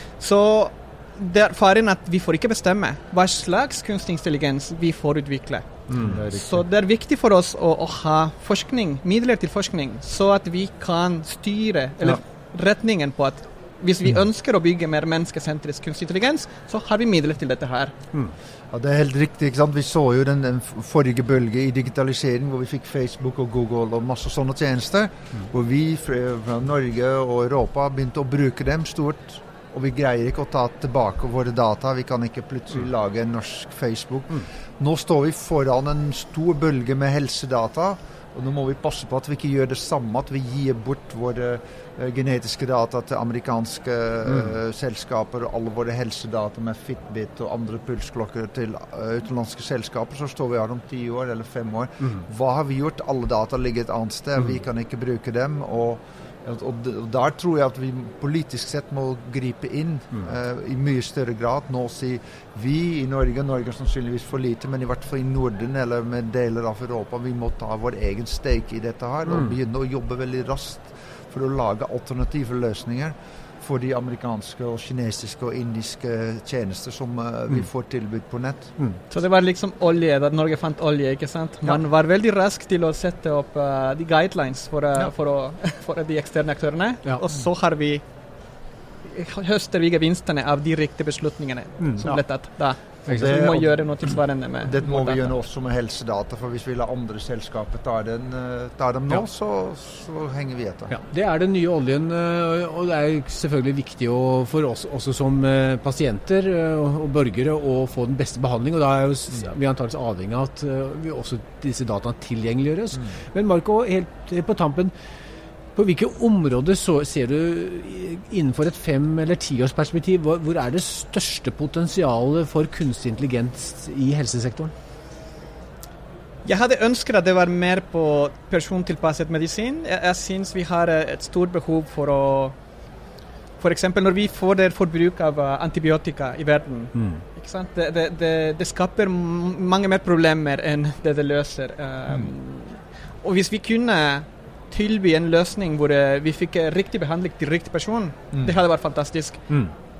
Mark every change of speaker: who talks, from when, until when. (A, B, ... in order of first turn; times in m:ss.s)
0:00.2-0:05.7 A
0:05.9-0:06.6 B
0:06.3-0:17.9 A
0:18.7-1:18.7 B
1:09.3-1:09.5 C
1:19.1-1:28.0 A
1:29.0-1:35.3 A
1:31.8-1:32.1 C
1:33.0-1:33.5 C
1:33.1-1:33.8 B
1:34.6-1:40.9 B
1:40.9-1:54.9 C
1:55.8-2:04.7 C
2:06.4-2:12.5 A
2:13.6-2:29.5 A
2:16.9-2:17.2 C